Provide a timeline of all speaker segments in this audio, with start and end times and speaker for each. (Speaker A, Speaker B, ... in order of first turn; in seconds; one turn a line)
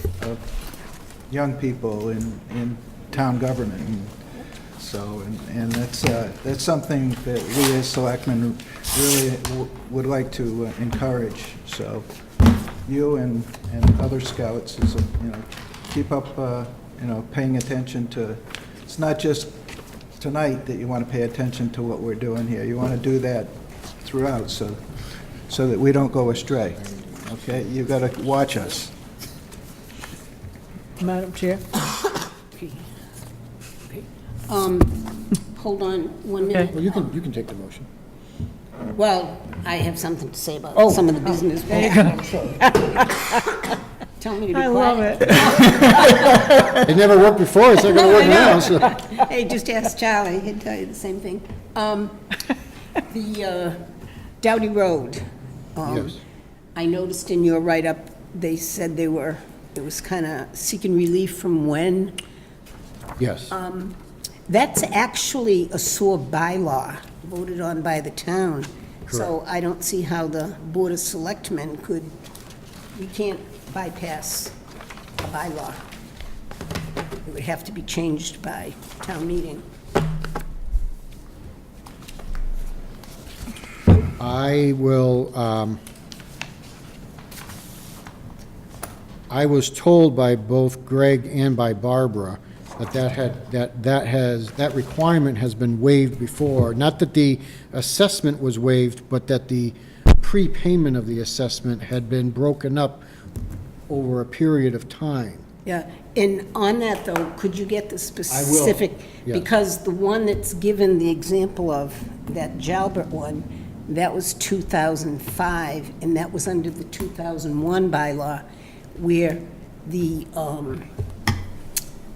Speaker A: 0.2-0.4
Speaker A: 1.3-4.2
Speaker A: 4.8-12.1
Speaker A: 12.8-19.6
Speaker A: 20.1-28.9
Speaker B: 31.0-31.7
Speaker C: 32.5-32.9
Speaker C: 34.5-36.9
Speaker D: 36.6-37.9
Speaker C: 38.9-42.5
Speaker B: 41.7-43.6
Speaker C: 44.2-45.8
Speaker B: 44.5-46.8
Speaker D: 46.8-49.0
Speaker C: 47.8-52.3
Speaker C: 53.0-53.8
Speaker C: 54.4-55.2
Speaker C: 55.8-56.1
Speaker D: 55.8-56.1
Speaker C: 56.7-62.1
Speaker D: 63.2-63.5
Speaker C: 63.5-64.0
Speaker C: 64.5-72.1
Speaker C: 72.9-74.5
Speaker C: 75.2-75.8
Speaker C: 77.2-79.6
Speaker D: 84.2-85.8
Speaker D: 89.3-103.0
Speaker D: 103.9-105.4
Speaker C: 105.7-118.4
Speaker D: 108.3-109.5
Speaker C: 118.9-120.8